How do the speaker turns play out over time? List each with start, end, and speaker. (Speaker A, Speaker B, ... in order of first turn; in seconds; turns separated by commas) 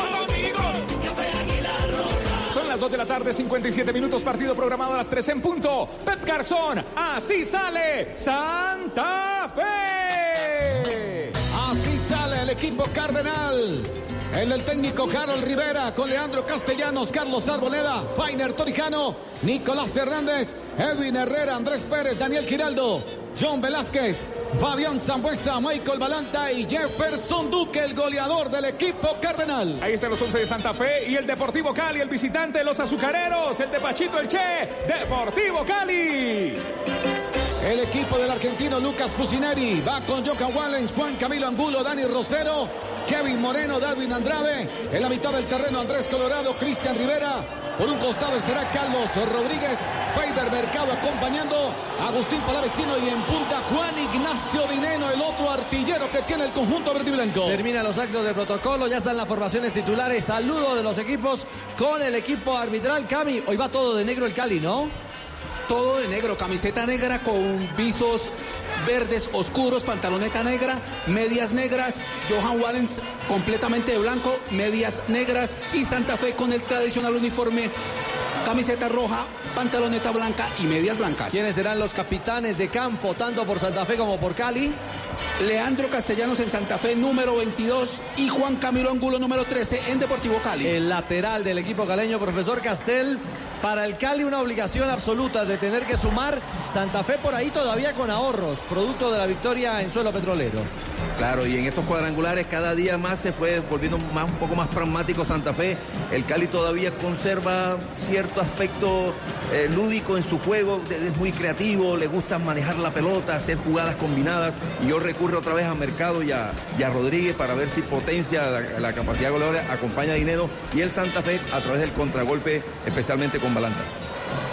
Speaker A: 2.5-11.3, Speaker B: 11.5-29.8, Speaker A: 29.8-36.6, Speaker B: 37.6-57.6, Speaker C: 57.4-64.9, Speaker D: 65.7-77.7, Speaker D: 78.4-81.5, Speaker C: 81.3-84.8, Speaker D: 85.4-90.8, Speaker C: 90.6-100.7, Speaker E: 101.2-123.9